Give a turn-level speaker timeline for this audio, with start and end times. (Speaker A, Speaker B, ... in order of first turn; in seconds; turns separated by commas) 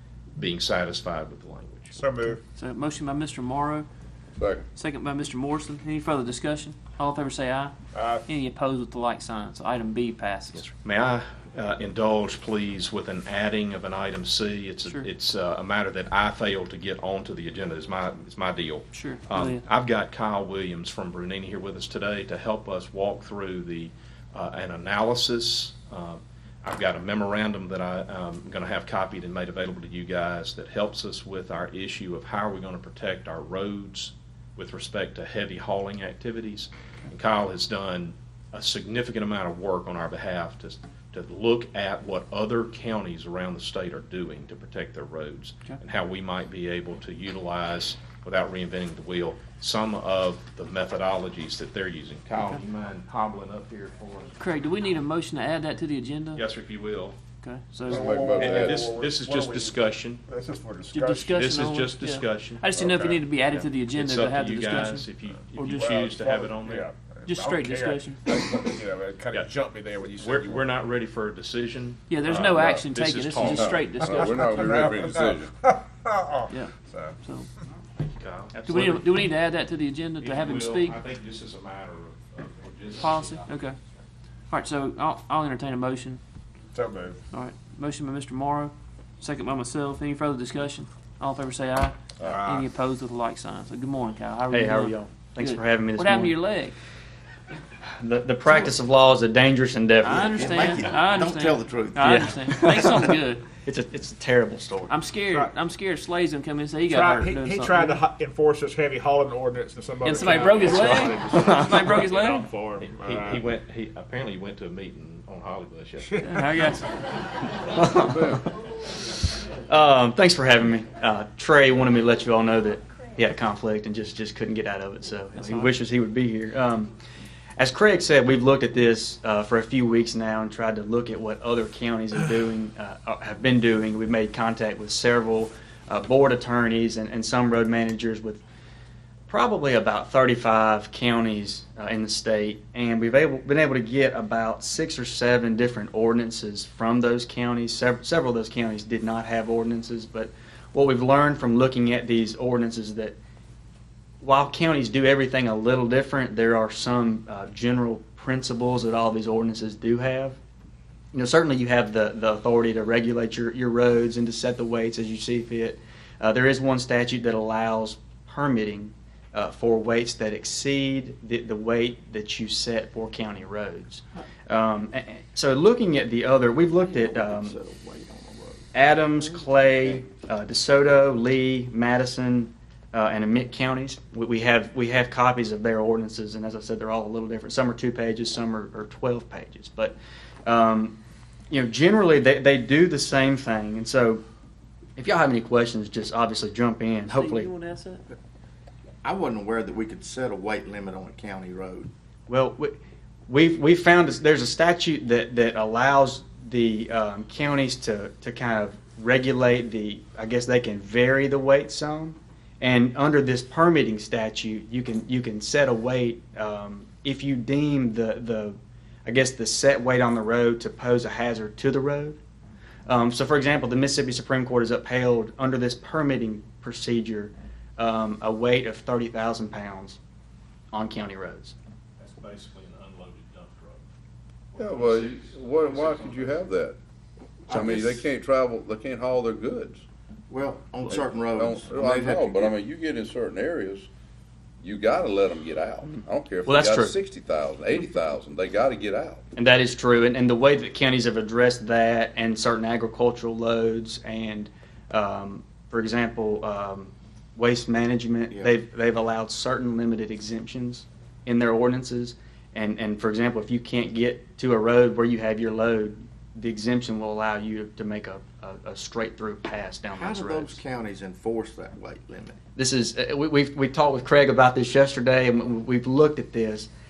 Speaker A: 0.4-2.0, Speaker B: 1.9-2.4, Speaker C: 2.3-3.9, Speaker D: 4.4-4.6, Speaker C: 4.7-7.7, Speaker B: 7.9-8.2, Speaker C: 8.2-10.7, Speaker A: 10.5-54.3, Speaker C: 18.9-19.6, Speaker C: 54.4-56.4, Speaker A: 56.3-57.2, Speaker C: 57.4-58.1, Speaker D: 57.9-58.9, Speaker B: 57.9-61.4, Speaker A: 58.4-60.2, Speaker C: 60.9-65.9, Speaker A: 61.3-62.6, Speaker A: 63.5-66.9, Speaker B: 65.7-70.7, Speaker C: 67.3-68.2, Speaker A: 70.1-74.0, Speaker C: 72.1-74.8, Speaker D: 72.5-72.8, Speaker D: 73.4-75.5, Speaker B: 74.6-77.1, Speaker C: 76.5-77.5, Speaker A: 78.0-78.6, Speaker E: 78.5-79.0, Speaker C: 78.7-81.0, Speaker A: 80.2-83.5, Speaker C: 83.0-83.8, Speaker C: 84.5-86.2, Speaker B: 86.7-87.2, Speaker C: 87.3-96.7, Speaker B: 92.2-92.6, Speaker E: 94.5-96.3, Speaker E: 97.8-100.5, Speaker C: 100.0-103.4, Speaker F: 100.1-102.5, Speaker E: 102.0-103.1, Speaker E: 103.6-104.9, Speaker C: 104.9-108.0, Speaker B: 105.3-105.5, Speaker B: 106.9-113.4, Speaker C: 110.0-112.5, Speaker A: 112.8-116.2, Speaker B: 116.1-116.5, Speaker C: 116.2-116.9, Speaker E: 117.7-118.5, Speaker D: 118.1-118.4, Speaker E: 119.7-126.9, Speaker C: 125.3-125.7, Speaker E: 127.6-138.4, Speaker E: 139.3-153.2, Speaker E: 154.2-160.4, Speaker E: 161.1-177.6, Speaker F: 176.7-178.7, Speaker E: 178.7-191.0, Speaker E: 191.5-194.2, Speaker E: 195.0-197.5, Speaker C: 197.1-198.0, Speaker F: 199.0-201.9, Speaker E: 202.3-202.8, Speaker E: 203.3-222.2, Speaker E: 222.9-230.0, Speaker E: 230.7-231.5, Speaker A: 232.0-233.8, Speaker A: 234.5-236.4, Speaker D: 234.6-236.8, Speaker D: 237.5-239.8, Speaker F: 237.5-237.7, Speaker E: 237.5-238.0, Speaker F: 240.3-242.6, Speaker D: 240.8-243.9, Speaker D: 244.6-249.2, Speaker E: 246.4-246.9, Speaker E: 249.3-270.6, Speaker F: 258.3-258.5, Speaker F: 269.9-272.4, Speaker E: 272.6-276.7